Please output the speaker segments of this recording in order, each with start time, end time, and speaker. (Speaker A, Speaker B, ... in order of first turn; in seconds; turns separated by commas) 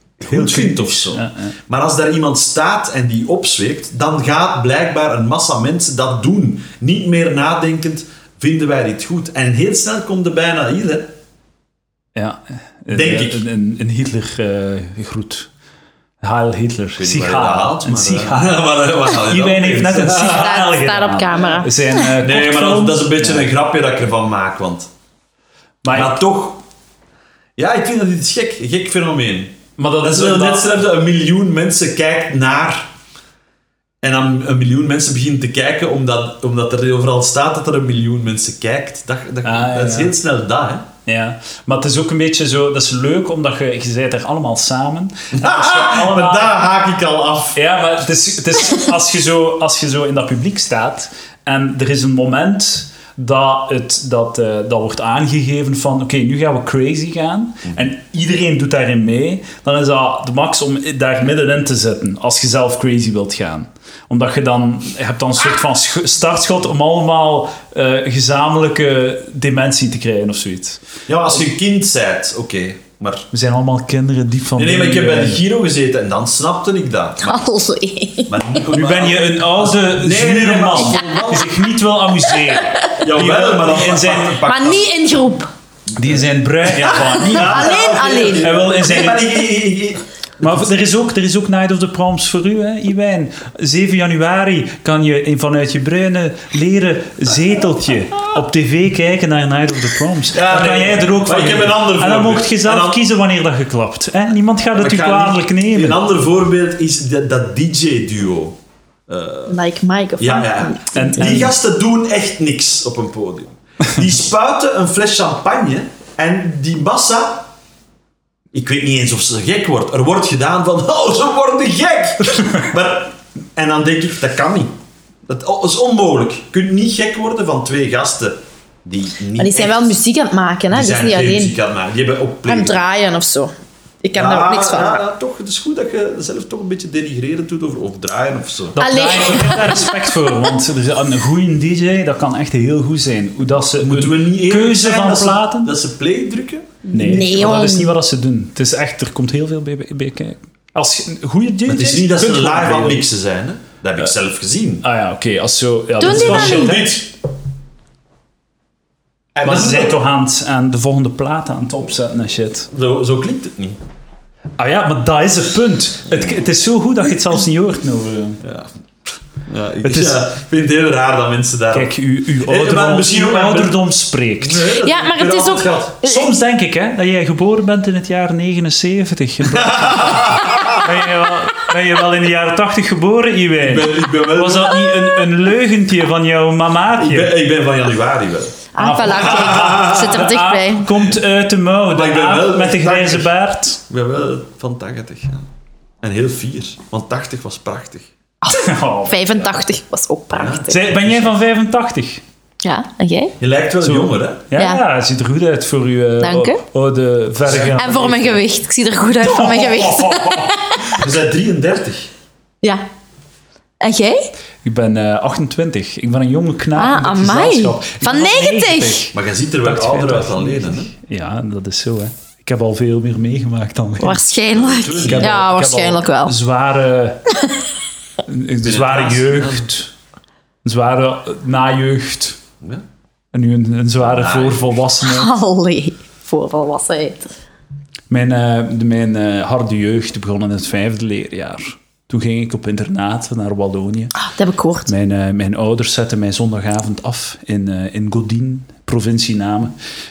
Speaker A: 0.2-11.1, Speaker B: 0.2-1.5, Speaker B: 12.2-15.5, Speaker A: 12.9-13.4, Speaker B: 16.2-23.5, Speaker A: 17.0-20.6, Speaker C: 20.2-21.8, Speaker A: 22.1-24.9, Speaker B: 25.8-26.2, Speaker A: 25.9-26.6, Speaker A: 27.6-32.9, Speaker B: 29.8-30.7, Speaker A: 34.0-40.9, Speaker B: 39.4-40.1, Speaker B: 41.0-46.6, Speaker A: 45.3-47.6, Speaker B: 47.5-70.8, Speaker A: 71.1-73.3, Speaker B: 73.3-75.4, Speaker A: 74.5-77.4, Speaker C: 77.2-78.4, Speaker A: 78.3-81.5, Speaker B: 78.7-84.4, Speaker C: 82.6-82.9, Speaker A: 83.0-84.8, Speaker C: 84.4-85.5, Speaker B: 86.0-87.8, Speaker A: 86.1-90.6, Speaker C: 87.3-88.5, Speaker B: 88.4-89.2, Speaker B: 90.4-106.0, Speaker A: 100.3-103.0, Speaker A: 104.7-108.6, Speaker A: 109.1-109.6, Speaker C: 109.5-111.4, Speaker A: 110.2-117.5, Speaker B: 110.9-111.5, Speaker A: 118.5-124.7, Speaker A: 125.2-130.0, Speaker C: 129.4-131.5, Speaker A: 130.7-132.8, Speaker C: 132.5-133.5, Speaker C: 134.0-135.0, Speaker A: 134.1-138.8, Speaker B: 138.7-145.7, Speaker C: 138.8-140.1, Speaker A: 143.6-147.2, Speaker C: 146.9-147.9, Speaker B: 146.9-153.0, Speaker A: 151.7-154.8, Speaker B: 154.8-156.9, Speaker C: 156.0-156.9, Speaker A: 156.0-157.1, Speaker A: 159.3-160.0, Speaker B: 159.4-162.7, Speaker A: 162.7-163.8, Speaker B: 164.6-168.4, Speaker A: 168.4-168.7, Speaker A: 169.4-173.8, Speaker B: 169.8-170.3, Speaker B: 171.7-174.7, Speaker A: 174.4-176.0, Speaker C: 174.8-176.3, Speaker B: 176.0-187.3, Speaker A: 179.5-180.8, Speaker A: 183.6-185.0, Speaker A: 186.9-190.2, Speaker C: 188.7-190.9, Speaker B: 188.8-193.8, Speaker A: 191.9-193.3, Speaker A: 193.9-195.5, Speaker A: 196.0-198.1, Speaker C: 198.4-200.8, Speaker B: 198.5-199.4, Speaker A: 200.3-201.3, Speaker B: 200.7-202.2, Speaker C: 202.6-203.3, Speaker A: 203.4-204.4, Speaker B: 203.8-208.3, Speaker C: 204.6-204.8, Speaker C: 206.2-206.6, Speaker A: 207.4-208.4, Speaker C: 207.5-211.0, Speaker B: 209.3-210.5, Speaker A: 210.9-212.1, Speaker C: 213.8-214.3, Speaker B: 214.6-224.2, Speaker C: 216.8-219.1, Speaker A: 219.1-220.9, Speaker C: 224.0-226.3, Speaker A: 224.5-225.5, Speaker B: 225.0-227.3, Speaker B: 228.2-229.9, Speaker A: 228.6-229.7, Speaker B: 230.6-232.4, Speaker B: 233.3-235.3, Speaker A: 234.0-234.7, Speaker C: 235.0-237.3, Speaker B: 238.1-244.1, Speaker C: 244.2-244.9, Speaker B: 244.8-249.7